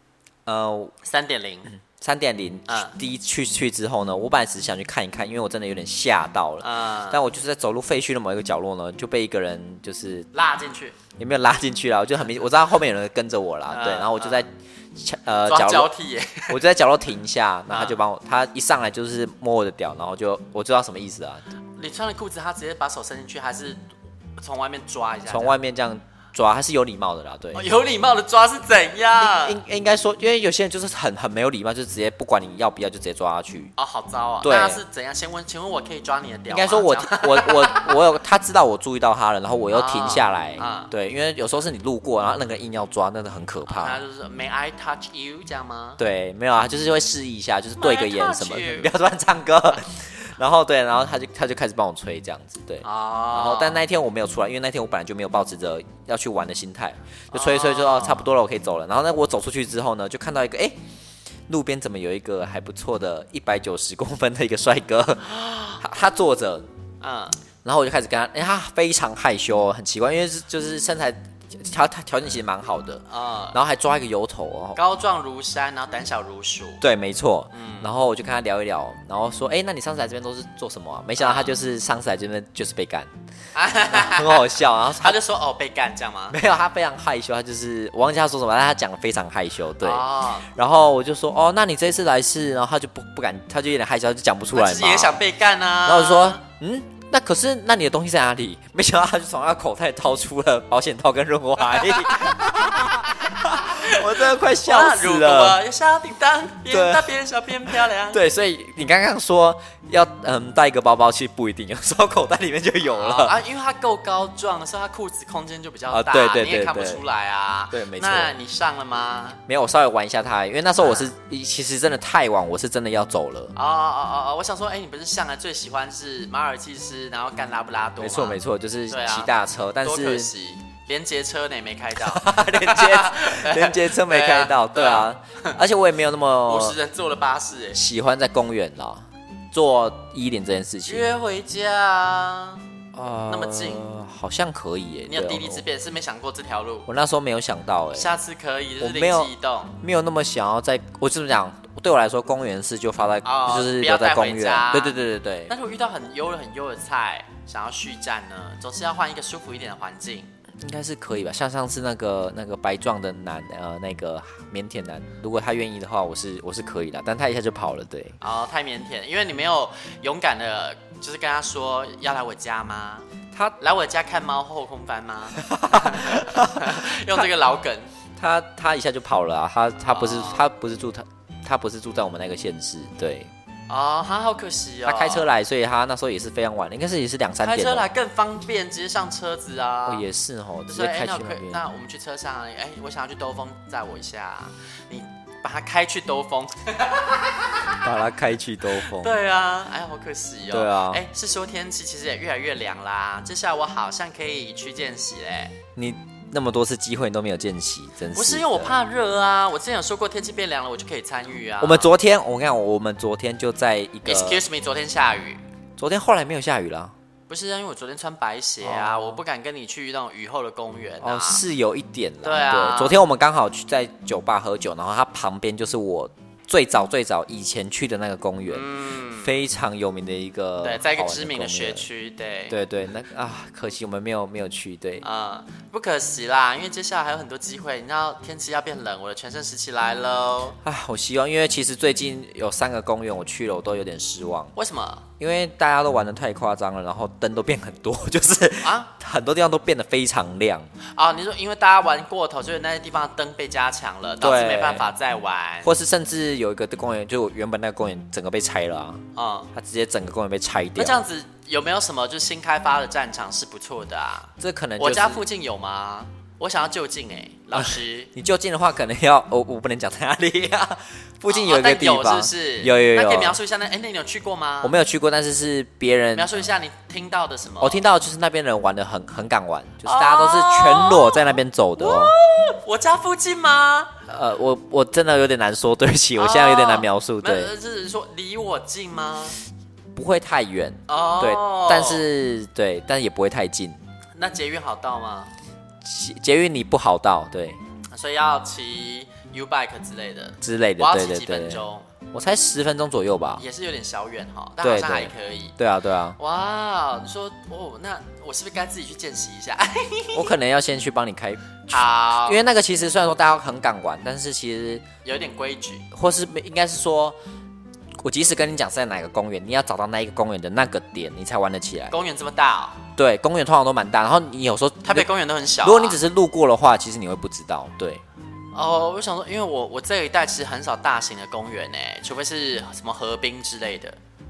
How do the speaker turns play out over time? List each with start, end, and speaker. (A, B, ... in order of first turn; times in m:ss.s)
0:00.4-0:00.9 A
0:01.0-0:01.7 B
0:02.0-0:10.3 A
0:02.7-0:02.9 B
0:06.6-0:07.2 B
0:10.3-0:11.0 B
0:11.2-0:15.9 A
0:13.7-0:14.4 B
0:15.5-0:16.6 B
0:16.5-0:21.5 A
0:17.7-0:18.0 B
0:21.8-0:23.8 B
0:24.4-0:25.5 B
0:25.3-0:27.6 A
0:27.5-0:29.6 B
0:29.2-0:33.7 A
0:33.8-0:38.0 B
0:34.4-0:34.8 A
0:36.5-0:44.0 A
0:39.7-0:40.9 B
0:43.7-0:46.0 B
0:46.0-1:00.8 A
0:47.8-0:48.9 B
0:52.8-0:53.8 B
0:57.3-0:58.3 B
1:01.5-1:06.7 A
1:05.2-1:05.8 B
1:07.0-1:07.4 B
1:07.6-1:14.8 A
1:13.1-1:13.6 B
1:14.7-1:16.8 B
1:16.8-1:23.1 A
1:17.5-1:17.9 B
1:21.2-1:21.5 B
1:23.5-1:26.4 B
1:23.9-1:25.2 A
1:26.3-1:35.2 A
1:29.8-1:30.5 B
1:34.5-1:36.4 B
1:35.8-1:45.6 A
1:41.7-1:42.3 B
1:43.3-1:48.2 B
1:46.7-1:47.1 A
1:47.7-1:53.4 A
1:52.8-1:59.4 B
1:55.9-1:57.0 A
1:57.7-1:58.4 A
1:59.5-2:03.5 A
2:00.8-2:01.1 B
2:03.5-2:09.3 B
2:08.0-2:10.3 A
2:09.8-2:15.5 B
2:12.0-2:16.8 A
2:16.4-2:17.8 B
2:17.7-2:21.0 A
2:20.8-2:22.6 B
2:22.9-2:25.6 A
2:23.3-2:23.8 B
2:25.0-2:26.9 B
2:26.9-2:28.1 A
2:27.9-2:29.8 B
2:28.8-2:35.5 A
2:33.2-2:40.3 B
2:40.6-2:48.2 A
2:48.2-2:53.1 B
2:53.6-2:57.9 B
2:55.4-2:57.3 A
2:58.2-3:03.3 A
2:59.9-3:00.4 B
3:03.7-3:05.3 B
3:04.8-3:07.9 A
3:07.4-3:10.0 B
3:09.8-3:11.6 A
3:10.7-3:17.8 B
3:17.7-3:19.1 A
3:18.9-3:25.5 B
3:20.5-3:21.0 A
3:25.8-3:28.8 A
3:28.1-3:31.9 B
3:31.6-3:34.4 A
3:34.0-3:35.4 B
3:35.8-3:36.9 A
3:37.3-3:41.4 B
3:38.6-3:39.2 A
3:41.0-3:51.8 A
3:42.2-3:43.0 B
3:48.5-3:49.4 B
3:50.6-3:52.5 B
3:52.5-3:55.0 A
3:55.0-4:00.6 B
4:00.6-4:04.5 A
4:04.5-4:05.0 B
4:05.2-4:10.7 A
4:08.6-4:08.9 B
4:10.9-4:15.7 B
4:14.2-4:14.9 A
4:15.6-4:21.0 A
4:19.2-4:19.5 B
4:20.8-4:28.1 B
4:24.4-4:25.2 A
4:27.5-4:33.4 A
4:31.3-4:34.7 B
4:34.6-4:36.5 A
4:36.1-4:37.8 B
4:37.6-4:42.1 A
4:39.8-4:44.0 B
4:44.1-4:47.5 A
4:46.2-4:49.4 B
4:49.9-4:53.8 A
4:50.9-4:52.0 B
4:54.2-4:55.3 B
4:55.8-4:57.6 A
4:57.9-5:01.9 B
5:00.4-5:03.4 A
5:03.4-5:05.6 B
5:04.6-5:06.2 A
5:06.2-5:10.3 B
5:10.1-5:14.8 A
5:11.7-5:12.4 B
5:15.0-5:15.9 B
5:15.9-5:17.2 A
5:18.0-5:22.0 A
5:21.9-5:22.8 B
5:23.0-5:25.1 A
5:24.8-5:26.0 B
5:25.6-5:28.0 A
5:28.5-5:34.0 B